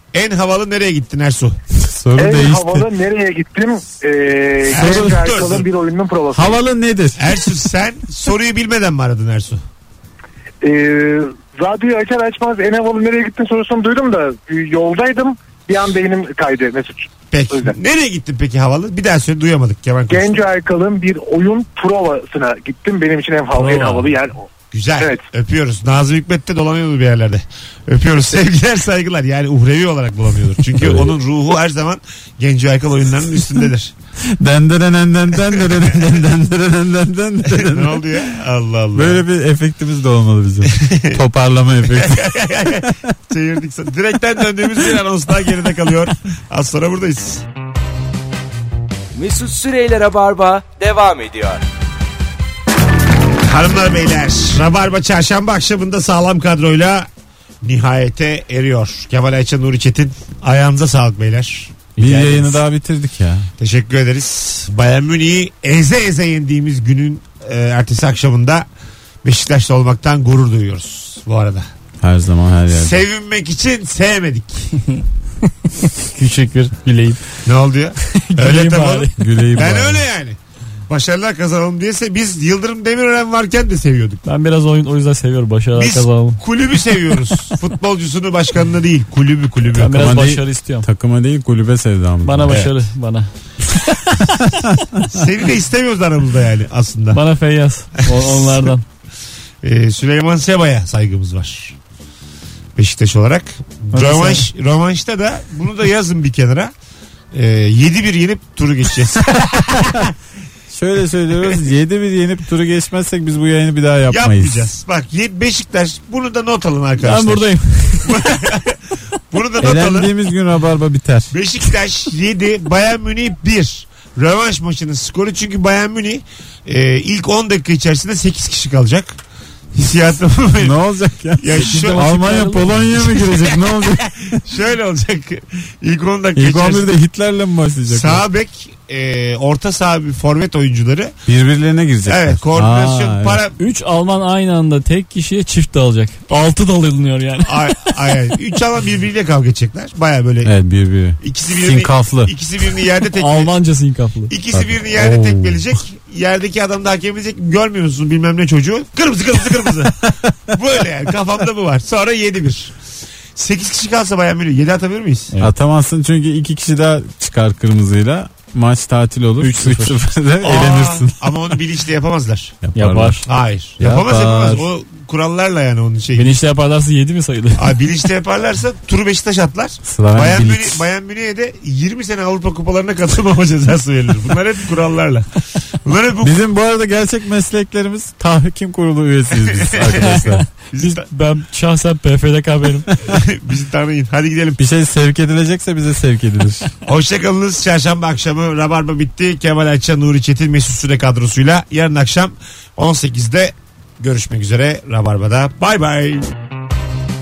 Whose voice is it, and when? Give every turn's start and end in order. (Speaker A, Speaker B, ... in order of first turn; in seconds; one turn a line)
Speaker A: 0.1-1.6
Speaker B: 1.7-2.9
Speaker C: 2.2-6.6
Speaker A: 4.7-5.6
Speaker B: 4.7-5.5
Speaker B: 6.3-7.5
Speaker A: 7.2-9.6
Speaker C: 10.6-17.8
Speaker A: 17.3-20.4
Speaker C: 20.1-24.4
Speaker D: 23.6-24.0
Speaker A: 24.7-33.9
Speaker C: 25.0-25.2
Speaker B: 30.8-31.1
Speaker B: 34.3-38.2
Speaker A: 37.5-39.2
Speaker B: 38.9-43.1
Speaker A: 40.7-41.2
Speaker A: 41.9-47.4
Speaker E: 49.1-51.6
Speaker A: 53.4-57.1
Speaker A: 57.6-62.6
Speaker B: 62.0-63.5
Speaker A: 63.6-68.7
Speaker A: 69.2-71.7
Speaker B: 72.0-73.0
Speaker A: 72.7-74.7
Speaker D: 76.0-77.2
Speaker A: 77.4-80.4
Speaker D: 78.1-79.6
Speaker B: 79.2-80.0
Speaker A: 80.9-84.2
Speaker D: 84.2-86.4
Speaker A: 85.8-90.1
Speaker D: 89.7-90.9
Speaker B: 89.8-92.7
Speaker D: 92.2-94.5
Speaker A: 95.1-97.2
Speaker D: 97.1-98.8
Speaker A: 98.0-98.7
Speaker A: 99.6-101.7
Speaker A: 102.8-106.7
Speaker D: 103.9-104.5
Speaker A: 107.3-110.1
Speaker B: 109.7-110.0
Speaker B: 110.7-114.7
Speaker A: 114.1-117.4
Speaker D: 117.0-118.3
Speaker A: 118.0-118.8
Speaker A: 119.3-120.1
Speaker B: 119.6-121.3
Speaker A: 121.3-129.2
Speaker A: 129.7-130.8
Speaker B: 130.6-134.4
Speaker A: 131.4-132.1
Speaker D: 131.5-132.9
Speaker A: 133.2-136.9
Speaker B: 136.3-138.2
Speaker A: 137.9-141.1
Speaker B: 141.3-143.4
Speaker A: 142.1-143.6
Speaker D: 143.6-147.9
Speaker A: 147.4-150.5
Speaker B: 150.4-152.3
Speaker A: 151.2-153.5
Speaker D: 153.2-154.3
Speaker A: 154.3-162.7
Speaker B: 154.5-155.7
Speaker A: 163.3-165.3
Speaker B: 165.4-171.2
Speaker D: 169.4-170.0
Speaker A: 170.4-172.6
Speaker B: 172.6-173.3
Speaker D: 172.7-173.2
Speaker A: 173.3-176.3
Speaker B: 173.8-174.6
Speaker D: 176.1-177.7
Speaker A: 177.6-185.2
Speaker B: 179.8-180.8
Speaker A: 185.8-186.4
Speaker B: 186.2-190.4
Speaker A: 189.7-190.2
Speaker A: 190.7-191.0
Speaker D: 190.7-192.9
Speaker B: 192.9-193.2
Speaker A: 193.1-194.6
Speaker B: 194.6-196.7
Speaker A: 196.8-206.3